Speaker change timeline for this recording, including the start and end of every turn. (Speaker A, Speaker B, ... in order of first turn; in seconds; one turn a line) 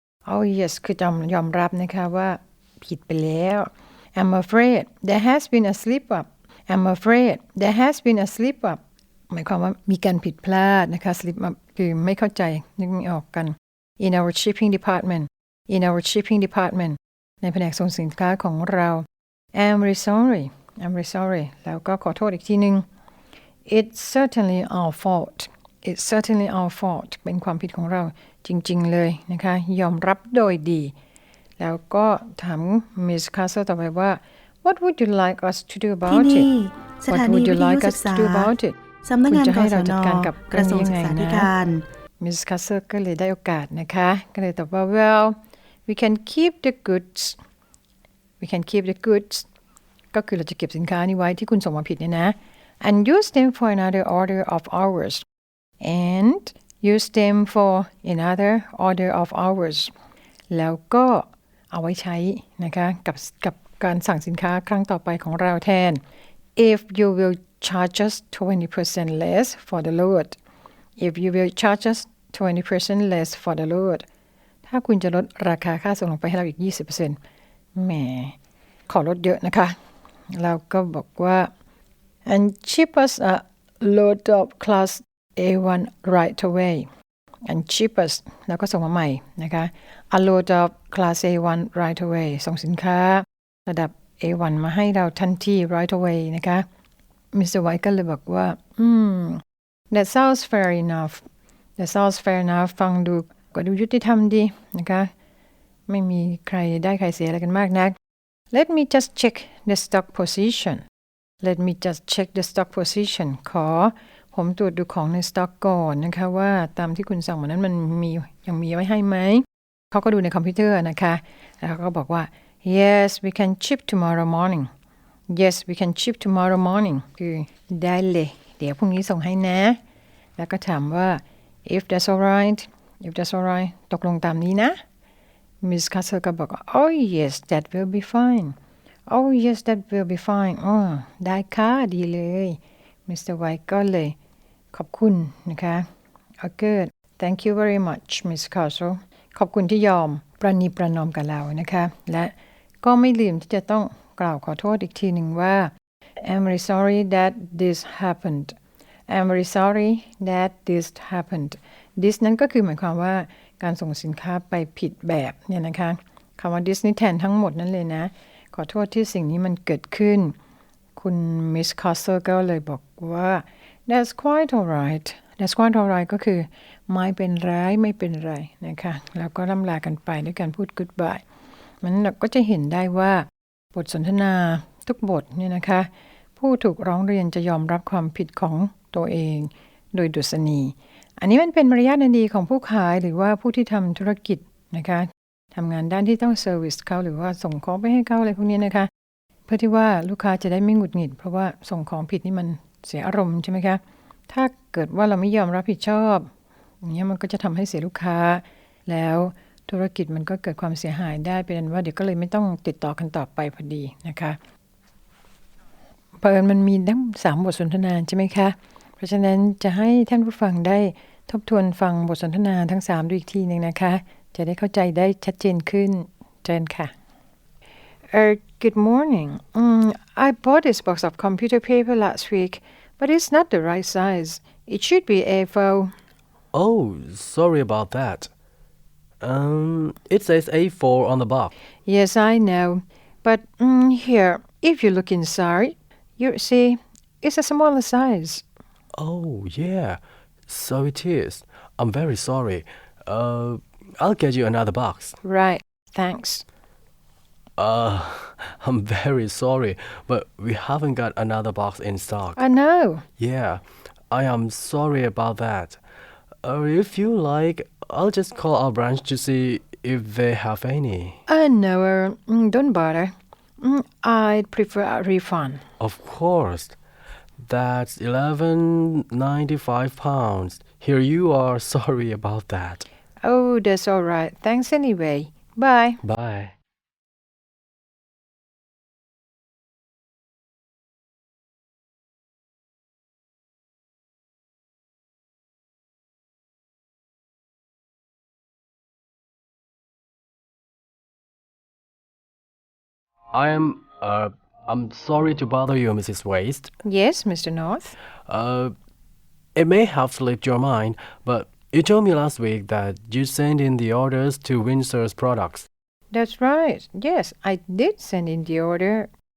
Speaker A: 0.3-8.8
Speaker A: 9.3-22.9
Speaker A: 23.7-30.9
Speaker A: 31.6-36.5
Speaker B: 36.1-41.9
Speaker A: 37.1-38.7
Speaker A: 39.3-41.5
Speaker A: 42.2-47.4
Speaker A: 48.4-49.5
Speaker A: 50.1-55.2
Speaker A: 55.8-59.9
Speaker A: 60.5-66.0
Speaker A: 66.6-70.4
Speaker A: 71.0-74.0
Speaker A: 74.7-77.2
Speaker A: 77.8-78.4
Speaker A: 78.9-79.8
Speaker A: 80.3-81.5
Speaker A: 82.3-86.9
Speaker A: 87.5-96.7
Speaker A: 97.3-101.2
Speaker A: 101.8-105.1
Speaker A: 105.9-108.0
Speaker A: 108.5-110.8
Speaker A: 111.4-124.7
Speaker A: 125.3-129.8
Speaker A: 130.4-134.8
Speaker A: 135.6-138.6
Speaker A: 139.1-144.2
Speaker A: 144.7-145.9
Speaker A: 146.4-158.6
Speaker A: 159.1-170.3
Speaker A: 171.0-181.2
Speaker A: 181.8-198.9
Speaker A: 199.5-206.3
Speaker A: 206.8-214.4
Speaker A: 216.2-226.9
Speaker A: 228.1-235.9
Speaker C: 236.5-238.3
Speaker C: 239.2-241.5
Speaker A: 241.9-248.4
Speaker C: 248.9-255.2
Speaker A: 255.2-256.4
Speaker C: 257.6-262.4
Speaker A: 262.4-263.1
Speaker C: 263.2-265.8
Speaker C: 266.4-271.2
Speaker A: 271.3-275.6
Speaker C: 275.8-276.8
Speaker C: 277.4-282.9
Speaker A: 283.2-286.0
Speaker C: 286.0-286.5
Speaker C: 303.3-306.7
Speaker A: 306.8-308.0
Speaker C: 308.3-308.7
Speaker C: 309.6-315.7
Speaker A: 316.1-319.1